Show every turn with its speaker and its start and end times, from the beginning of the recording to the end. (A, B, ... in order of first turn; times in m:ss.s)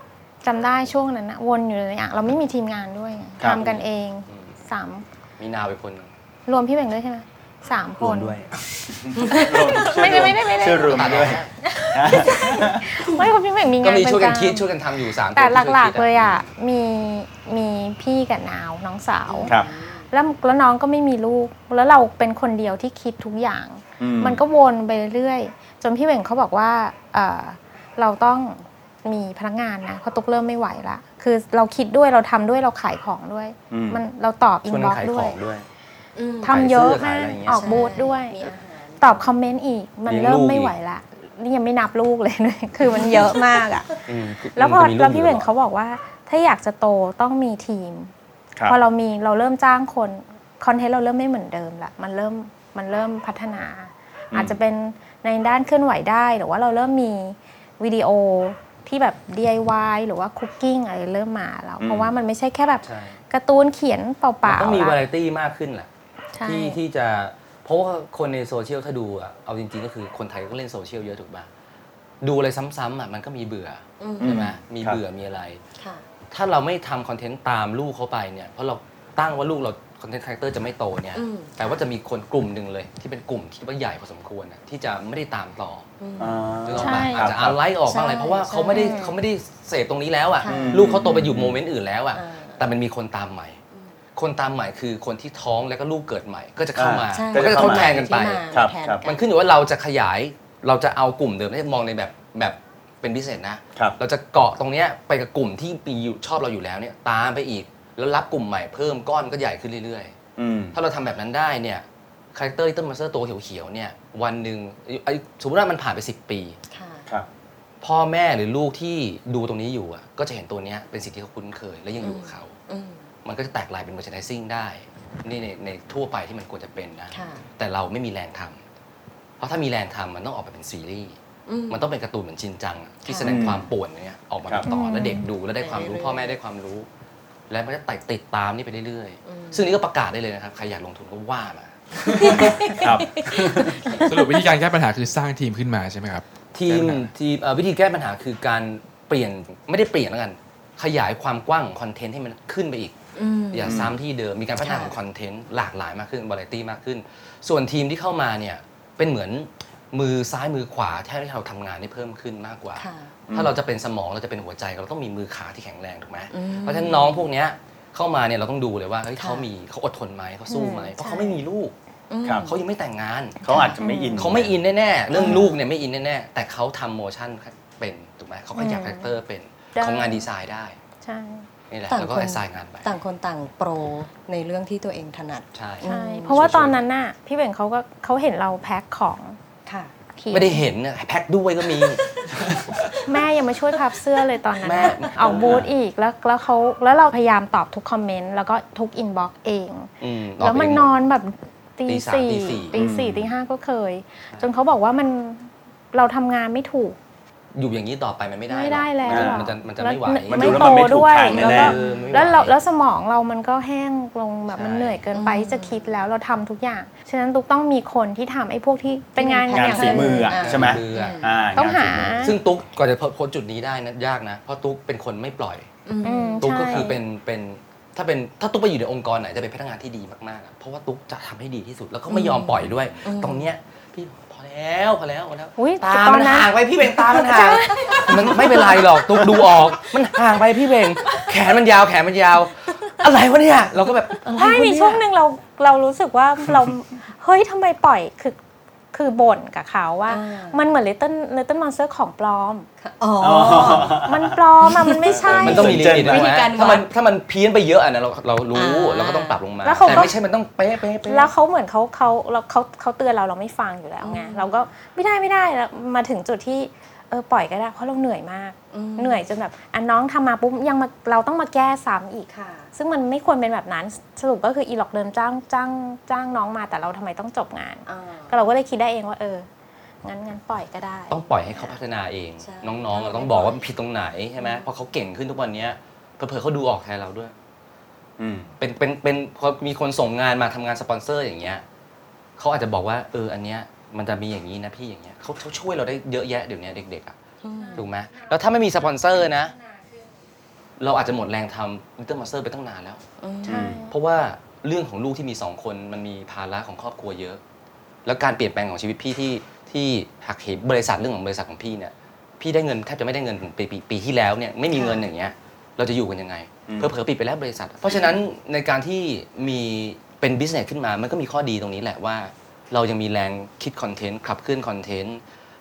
0:00.4-0:05.0 A
0:03.4-0:03.6 B
0:03.4-0:04.5 C
0:05.4-0:06.1 C
0:06.5-0:08.4 A
0:08.0-0:08.5 C
0:08.9-0:13.0 B
0:09.2-0:09.6 D
0:09.3-0:14.7 A
0:10.8-0:11.5 C
0:13.8-0:16.4 C
0:15.3-0:19.6 A
0:19.3-0:20.1 D
0:19.4-0:19.7 B
0:20.1-0:35.4 A
0:24.0-0:24.4 B
0:33.7-0:34.0 B
0:34.7-0:35.6 C
0:36.2-0:36.6 D
0:36.4-0:44.0 A
0:36.4-0:37.9 C
0:37.5-0:39.3 D
0:40.1-0:40.7 C
0:42.8-0:43.9 D
0:44.1-0:45.5 C
0:44.6-0:48.1 A
0:48.7-1:05.0 A
0:54.3-0:54.6 B
1:01.8-1:02.2 B
1:02.8-1:03.2 C
1:04.4-1:05.9 C
1:06.3-1:06.8 A
1:06.4-1:11.5 C
1:12.2-1:15.6 C
1:14.0-1:14.4 D
1:14.2-1:15.0 B
1:15.8-1:16.0 D
1:16.3-1:25.8 C
1:21.1-1:21.8 D
1:26.0-1:26.4 D
1:26.2-1:27.6 B
1:26.6-1:33.6 C
1:26.8-1:27.3 A
1:27.8-1:29.0 D
1:28.7-1:29.2 A
1:30.4-1:30.9 D
1:30.4-1:31.6 B
1:32.1-1:32.7 D
1:34.2-1:38.4 C
1:36.8-1:38.0 B
1:37.1-1:39.2 D
1:38.5-1:39.0 B
1:39.0-1:50.1 C
1:50.4-1:50.8 B
1:50.7-1:56.6 C
1:56.7-1:57.1 D
1:57.8-2:02.5 C
2:02.0-2:03.1 D
2:03.2-2:08.6 C
2:07.1-2:07.4 D
2:09.4-2:11.2 C
2:11.4-2:11.9 D
2:11.7-2:16.9 C
2:13.0-2:13.6 D
2:13.2-2:13.7 B
2:14.6-2:15.3 A
2:15.6-2:16.4 D
2:17.5-2:21.7 C
2:19.2-2:19.7 D
2:22.1-2:24.3 D
2:22.3-2:23.8 B
2:24.0-2:27.1 E
2:26.5-2:32.9 C
2:33.2-2:33.9 D
2:33.5-2:51.7 C
2:33.6-2:34.0 B
2:34.6-2:35.0 D
2:42.8-2:43.1 D
2:43.3-2:43.5 B
2:46.3-2:47.3 D
2:49.2-2:49.5 D
2:50.5-2:51.4 A
2:52.1-2:52.6 D
2:52.2-2:52.5 B
2:52.4-2:53.4 C
2:53.4-2:54.6 B
2:53.5-2:53.8 D
2:53.8-2:54.2 A
2:54.2-3:00.8 C
2:55.1-2:55.6 D
2:55.1-2:55.4 A
2:58.6-2:59.1 A
2:59.7-3:00.3 A
3:01.0-3:01.5 A
3:01.7-3:02.9 C
3:01.9-3:06.4 D
3:05.5-3:06.8 C
3:05.8-3:09.4 A
3:09.6-3:09.9 D
3:10.2-3:10.6 A
3:10.3-3:12.0 C
3:13.0-3:27.0 A
3:14.6-3:15.6 C
3:15.2-3:15.6 B
3:20.0-3:20.9 C
3:21.9-3:22.8 C
3:22.7-3:23.3 B
3:27.5-3:32.5 C
3:28.5-3:40.4 A
3:29.1-3:29.5 B
3:30.3-3:31.8 B
3:31.6-3:32.3 D
3:34.5-3:35.0 C
3:35.1-3:35.9 D
3:39.2-3:41.3 D
3:39.5-3:42.4 B
3:40.3-3:41.3 C
3:41.5-3:42.4 A
3:42.2-3:45.7 C
3:45.8-3:46.9 D
3:46.0-3:47.0 A
3:46.4-4:05.0 C
3:52.1-3:53.5 D
3:55.6-3:58.9 A
3:57.9-3:58.8 D
4:04.3-4:08.4 A
4:08.9-4:12.7 A
4:10.1-4:10.6 D
4:12.8-4:14.0 D
4:13.2-4:14.4 B
4:14.0-4:15.8 A
4:14.7-4:16.9 D
4:15.0-4:16.3 B
4:15.4-4:21.3 C
4:18.5-4:20.1 D
4:19.6-4:20.2 A
4:21.1-4:39.5 A
4:24.0-4:24.7 D
4:28.7-4:29.2 D
4:32.3-4:32.7 D
4:37.9-4:38.3 D
4:40.0-4:41.3 A
4:41.1-4:47.3 C
4:42.4-4:43.7 D
4:44.4-4:44.7 D
4:48.2-4:48.5 B
4:48.6-4:51.6 C
4:52.4-4:57.2 C
4:57.4-4:57.9 D
4:57.6-4:58.3 A
4:57.7-4:59.5 C
4:59.6-4:59.8 A
5:00.8-5:07.4 C
5:03.2-5:03.7 D
5:03.4-5:03.8 B
5:03.5-5:04.0 A
5:08.0-5:25.2 C
5:14.7-5:15.0 D
5:16.7-5:16.9 B